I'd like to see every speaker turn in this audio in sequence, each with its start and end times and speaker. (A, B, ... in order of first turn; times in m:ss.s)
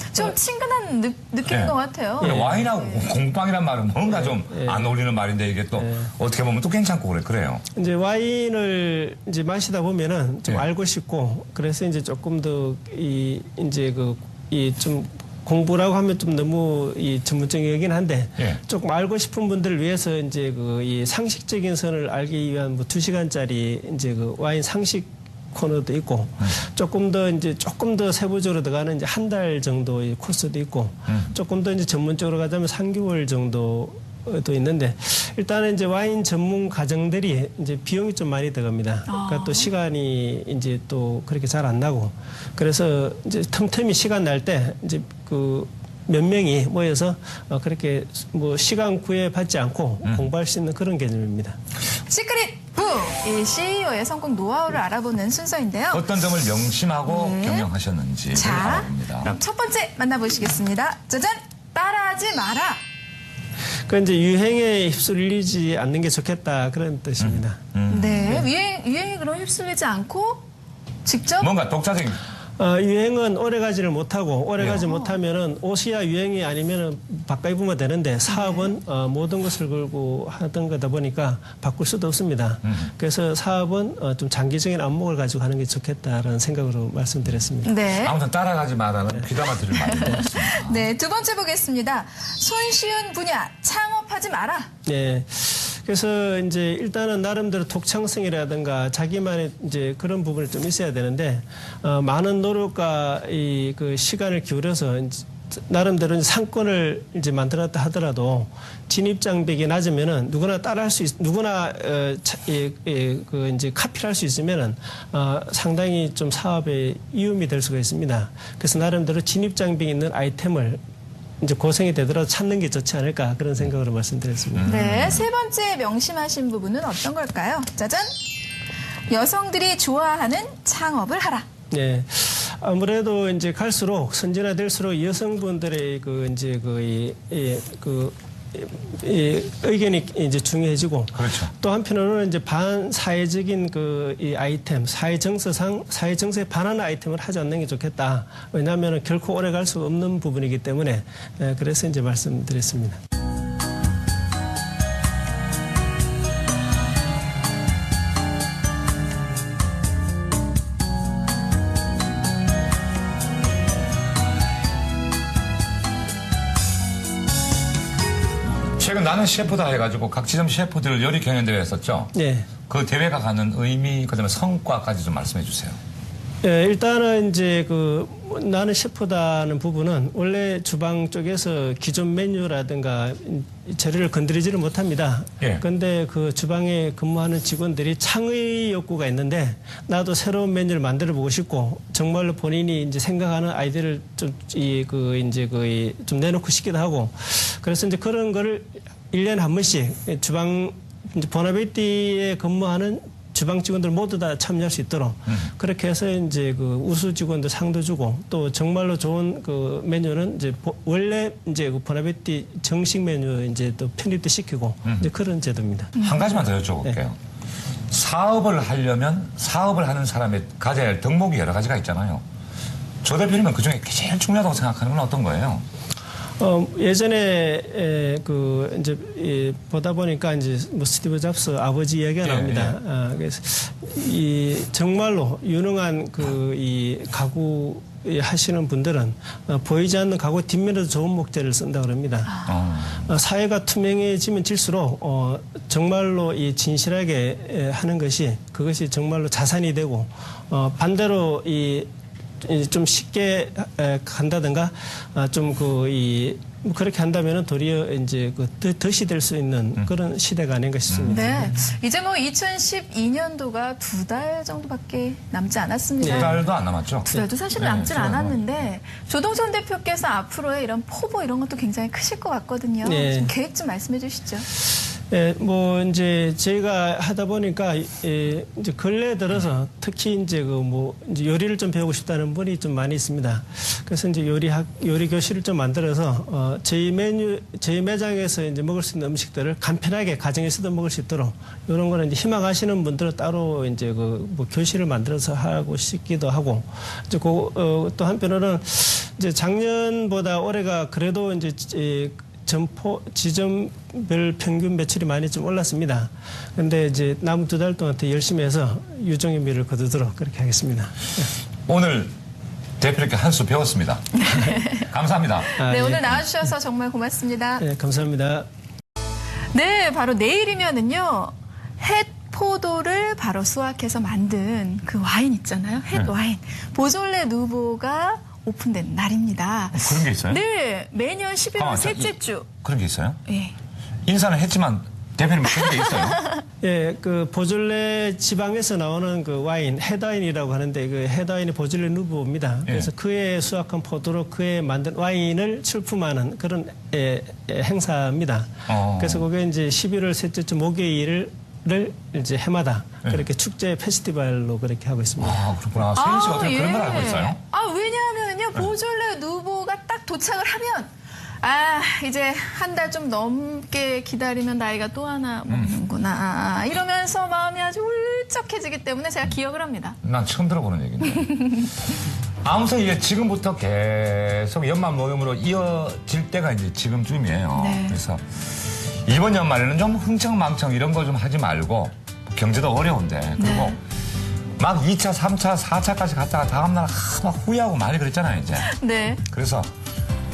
0:00.1-0:03.1 A
0:01.5-0:07.6 B
0:02.2-0:02.7 C
0:04.1-0:04.9 C
0:05.8-0:06.1 C
0:07.7-0:51.6 C
0:39.1-0:39.7 A
0:52.1-0:56.1 A
0:55.9-0:59.3 B
0:57.1-0:57.7 A
0:58.3-1:02.8 A
1:03.9-1:07.6 C
1:07.2-1:08.5 B
1:07.9-1:10.4 A
1:11.0-1:11.5 A
1:11.4-1:12.2 B
1:12.6-1:27.7 C
1:14.7-1:15.2 A
1:18.3-1:18.7 A
1:27.6-1:28.1 A
1:28.0-1:30.8 B
1:29.8-1:34.7 A
1:34.8-2:00.8 C
2:01.4-2:04.7 C
2:04.6-2:05.2 B
2:04.6-2:08.2 A
2:09.1-2:11.5 A
2:11.7-2:33.0 C
2:21.1-2:21.5 B
2:48.8-2:52.1 B
2:52.1-2:52.5 C
2:52.7-2:55.8 B
2:56.4-3:36.0 C
3:36.0-3:36.2 A
3:36.0-3:37.2 B
3:37.9-3:42.2 B
3:43.0-3:45.6 B
3:46.4-4:02.4 C
3:52.2-3:52.8 B
4:02.4-4:03.0 B
4:03.0-4:21.6 C
4:20.9-4:21.2 B
4:21.1-4:26.4 A
4:26.0-4:26.4 C
4:26.0-4:28.4 B
4:27.0-4:34.5 A
4:32.8-4:33.3 C
4:35.1-5:11.3 C
5:11.7-5:12.1 B
5:12.8-5:14.2 B
5:14.1-5:14.9 A
5:14.9-5:15.5 B
5:15.5-5:17.6 A
5:15.6-5:16.2 C
5:17.6-5:18.5 C
5:19.5-5:32.5 A
5:29.7-5:30.4 B
5:31.6-5:33.2 B
5:33.3-5:33.5 A
5:34.0-5:36.2 B
5:35.6-5:36.4 A
5:36.6-5:55.4 C
5:48.7-5:49.2 B
5:55.2-5:57.4 B
5:56.0-6:10.0 A
6:05.5-6:05.7 B
6:10.0-6:11.4 B
6:11.2-6:11.6 A
6:12.4-6:23.8 B
6:17.6-6:18.0 A
6:23.4-6:23.8 A
6:24.6-6:28.7 B
6:28.6-6:29.2 A
6:29.2-6:29.7 B